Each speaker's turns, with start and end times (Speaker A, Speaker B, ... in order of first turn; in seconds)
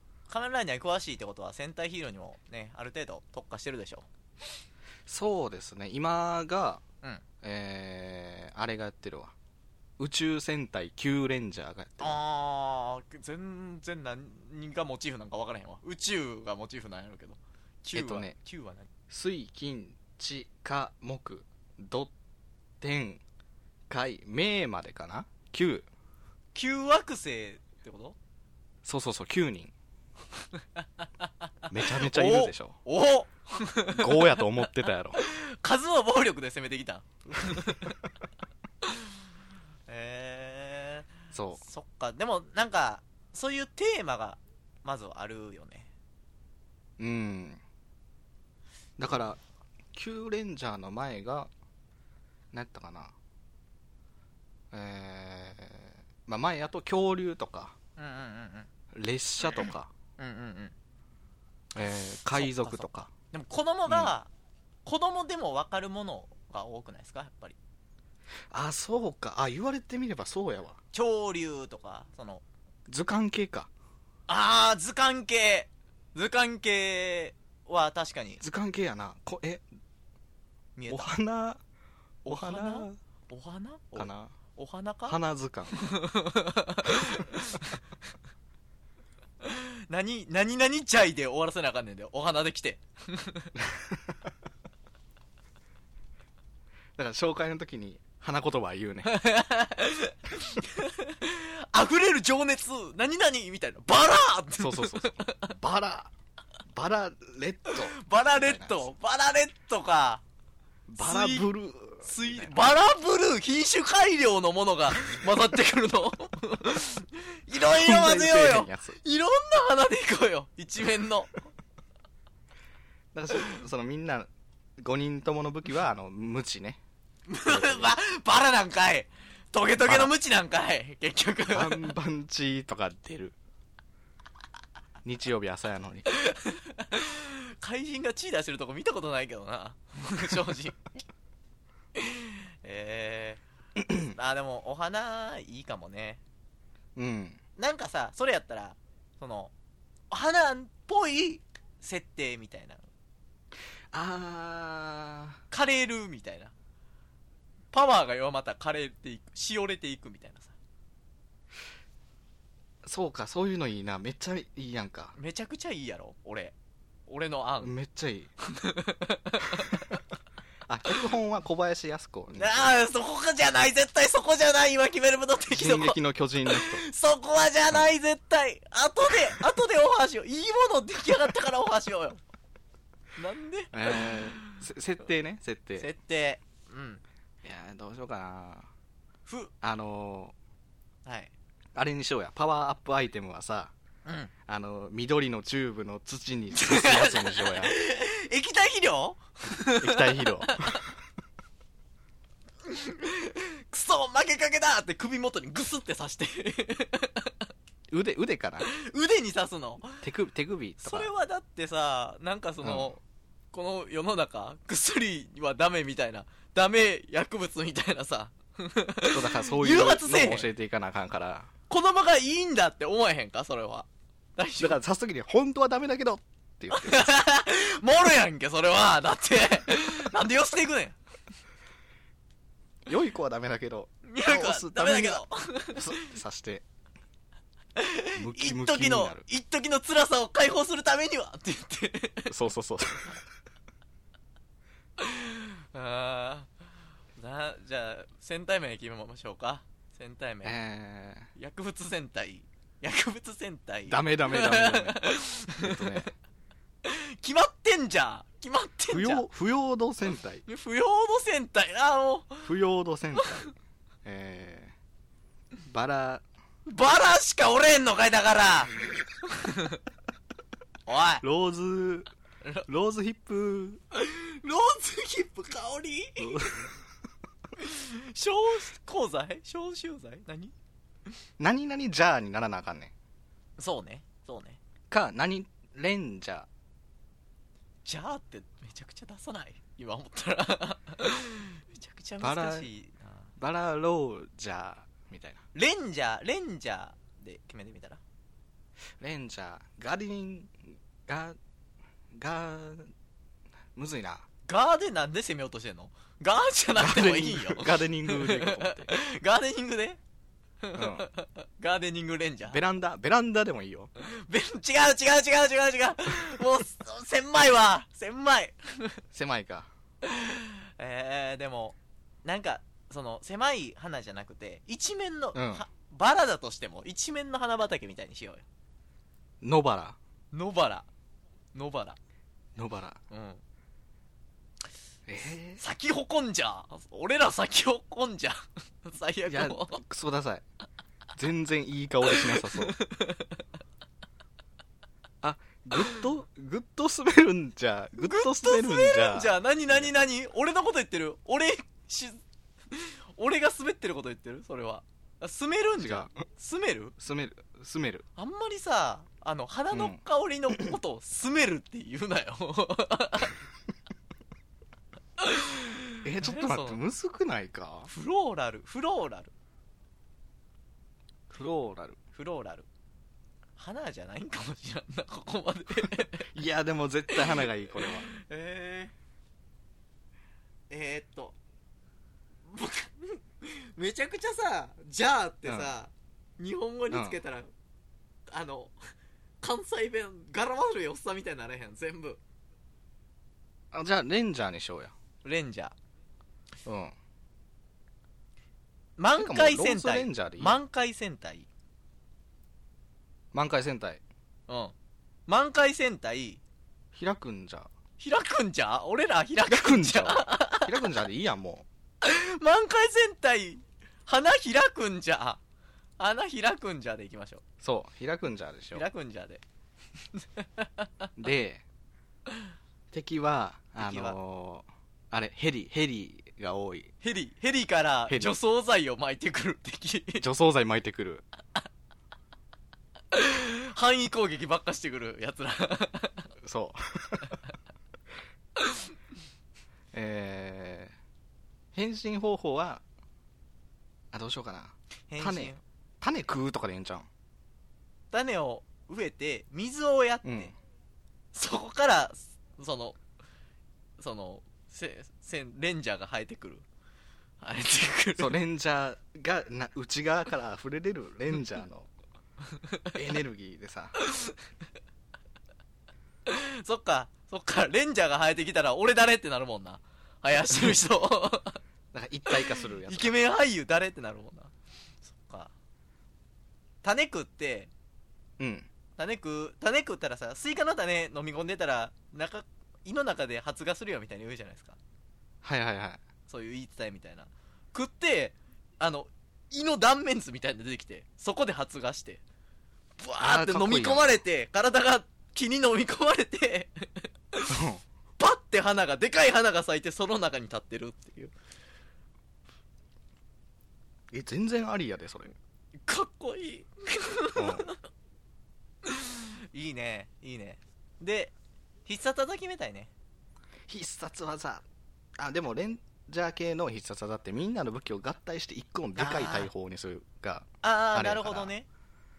Speaker A: 0.3-4.1, 12.0-18.9, 26.5-28.1, 31.0-31.3, 31.9-34.4, 35.1-38.0, 38.8-39.1, 39.9-45.9, 58.0-58.7, 60.2-60.7, 62.3-64.3, 64.8-67.6, 70.9-72.4, 74.3-78.4, 80.8-81.1, 82.2-85.2, 85.7-87.8, 89.4-93.5, 99.0-105.5, 107.7-110.2, 111.0-111.5, 112.0-121.4, 127.3-131.9, 136.1-140.8, 141.9-143.4, 143.9-146.2, 147.6-149.5, 150.1-152.9, 155.5-156.5, 157.7-160.5, 165.2-166.5, 167.1-167.7, 168.4-170.0, 172.3-182.2, 183.2-184.6, 185.8-187.0, 189.3-189.5, 191.1-191.3, 194.1-194.3, 196.5-200.8, 202.7-207.3, 208.6-210.0, 210.8-220.5, 221.7-224.8, 226.7-230.9, 234.1-236.1, 237.8-242.3, 245.0-246.5, 247.2-250.6, 251.3-256.1, 256.8-259.2, 260.4-262.5, 263.2-263.5, 266.7-269.8, 270.9-271.2, 273.9-276.7, 277.6-280.5, 283.6-284.6, 287.8-293.3, 295.5-298.0, 304.4-310.0, 310.6-312.6, 314.0-319.0, 320.0-328.4, 330.3-330.9, 331.5-332.0, 333.1-333.4, 335.5-339.8, 342.1-343.4, 348.0-352.2, 352.7-356.9, 358.1-363.4, 365.2-366.8, 367.9-369.3, 372.1-372.6, 373.6-376.3, 377.1-378.9, 380.7-381.3, 382.5-387.5, 388.3-388.8, 389.4-392.2, 395.2-395.7, 399.0-401.5, 404.5-404.7, 405.3-406.4, 408.0-410.8, 412.0-415.4, 416.0-417.4, 418.7-419.4, 420.1-421.1, 423.8-424.2, 427.0-430.2, 433.1-436.3, 438.6-438.9, 445.1-445.6, 448.1-450.5, 451.3-453.0, 454.0-456.6, 457.4-458.3, 464.0-464.4, 466.2-471.6, 472.3-475.5, 476.8-477.7, 479.0-484.8, 486.3-492.2, 493.0-497.6, 498.2-501.3, 505.9-507.8, 508.8-511.3, 511.9-512.9, 519.0-519.5, 520.6-521.6
Speaker B: 5.0-6.8, 7.4-9.3, 10.0-12.2, 17.9-18.3, 19.1-22.1, 22.8-23.2, 23.9-25.9, 28.8-29.7, 31.7-32.8, 34.0-35.2, 41.3-41.6, 47.0-47.6, 49.0-49.4, 49.9-51.5, 52.5-53.1, 54.7-57.7, 58.9-59.9, 61.7-63.1, 63.9-64.1, 68.5-70.8, 72.9-73.7, 78.4-79.6, 80.9-81.6, 82.2-83.0, 84.0-84.3, 85.1-85.8, 93.7-94.0, 97.0-99.2, 104.6-106.1, 106.7-108.9, 110.9-112.6, 117.6-119.0, 123.1-126.8, 127.4-128.0, 129.8-130.1, 131.5-133.3, 135.0-136.1, 143.8-144.1, 146.9-147.4, 153.9-155.4, 162.8-165.1, 167.6-168.3, 170.7-172.7, 175.5-176.8, 183.7-185.9, 187.4-188.7, 189.6-190.3, 191.7-193.7, 194.5-197.7, 199.8-200.8, 207.9-208.7, 210.0-211.1, 212.6-212.9, 219.1-221.5, 224.6-227.2, 232.8-236.6, 238.2-239.2, 242.3-243.2, 250.4-251.3, 253.9-255.0, 255.6-256.1, 258.9-260.4, 262.4-263.4, 264.0-264.7, 265.6-266.2, 271.2-272.1, 272.7-273.8, 276.2-276.7, 281.4-282.9, 284.9-286.5, 292.2-292.7, 293.4-295.4, 299.0-301.4, 302.1-302.9, 303.7-304.2, 306.8-308.9, 310.7-311.1, 312.5-313.9, 319.1-319.7, 325.3-325.6, 329.4-330.0, 332.6-333.0, 335.1-335.6, 339.3-340.4, 341.1-342.8, 345.2-349.9, 355.8-356.1, 357.0-358.0, 359.7-360.0, 366.0-367.9, 371.3-372.0, 375.9-378.1, 385.4-385.7, 386.9-387.2, 393.7-394.9, 396.6-396.9, 399.1-400.6, 403.3-404.0, 406.9-407.7, 409.4-411.6, 417.6-418.8, 421.2-421.6, 422.9-426.9, 428.1-428.3, 430.2-431.2, 436.4-437.3, 439.9-440.9, 441.7-442.8, 444.1-447.1, 450.2-450.5, 458.1-461.9, 462.9-463.9, 471.9-473.1, 478.4-478.7, 485.4-486.0, 493.2-494.2, 497.5-497.8, 504.1-505.4, 507.3-507.7, 513.7-514.6, 515.2-521.5